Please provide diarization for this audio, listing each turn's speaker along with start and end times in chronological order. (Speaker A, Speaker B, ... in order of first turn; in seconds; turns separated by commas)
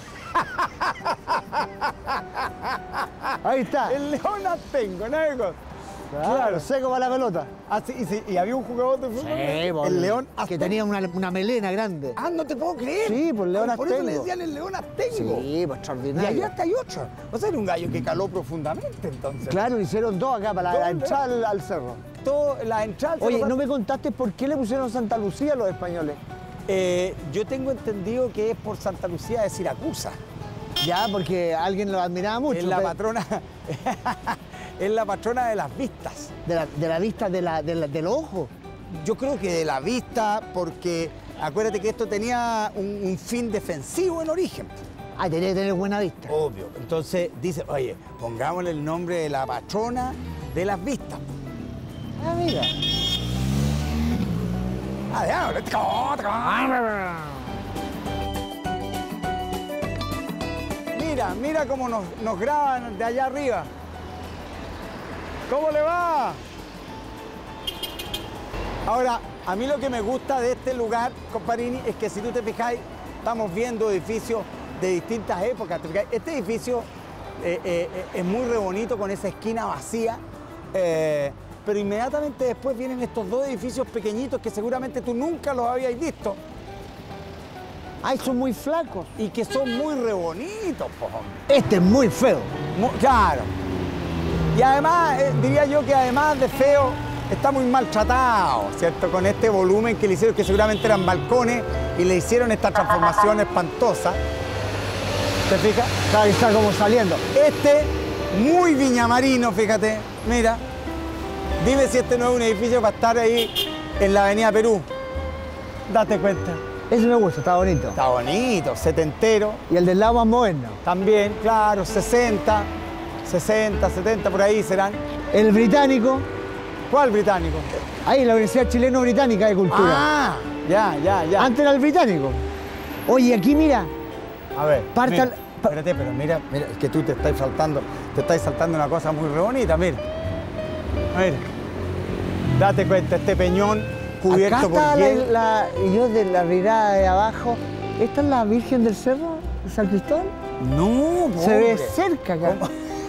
Speaker A: 0.3-5.6, Speaker B: 3.4-4.0, Speaker B: 6.1-7.5, Speaker A: 6.1-6.7, Speaker A: 7.7-10.8, Speaker B: 9.2-12.2, Speaker A: 12.2-15.5, Speaker B: 13.0-14.3, Speaker B: 15.1-16.5, Speaker A: 16.1-19.7, Speaker B: 19.4-22.0, Speaker A: 20.7-21.2, Speaker A: 22.2-23.6, Speaker B: 23.2-26.2, Speaker A: 26.7-30.2, Speaker B: 30.8-32.9, Speaker A: 32.5-36.3, Speaker B: 36.4-38.5, Speaker A: 38.9-44.8, Speaker B: 45.2-46.3, Speaker A: 46.3-51.2, Speaker B: 52.2-52.7, Speaker A: 55.1-57.3, Speaker A: 60.9-63.7, Speaker A: 65.5-66.4, Speaker A: 68.8-80.2, Speaker A: 80.7-86.4, Speaker B: 88.0-89.1, Speaker A: 89.2-91.4, Speaker B: 91.5-92.5, Speaker A: 92.7-93.5, Speaker A: 94.5-104.2, Speaker A: 105.5-105.9, Speaker B: 106.1-107.2, Speaker A: 107.3-110.6, Speaker A: 111.6-114.9, Speaker A: 115.9-116.6, Speaker B: 116.9-118.0, Speaker A: 117.9-119.6, Speaker B: 119.7-120.8, Speaker A: 120.8-122.7, Speaker A: 123.2-125.0, Speaker B: 125.3-126.2, Speaker A: 126.9-127.7, Speaker B: 128.0-130.1, Speaker A: 129.7-131.5, Speaker B: 131.4-132.4, Speaker B: 133.1-133.9, Speaker A: 134.5-140.0, Speaker B: 134.9-135.7, Speaker A: 141.1-141.4, Speaker A: 142.5-145.3, Speaker B: 144.3-150.3, Speaker A: 150.6-152.7, Speaker B: 151.4-152.6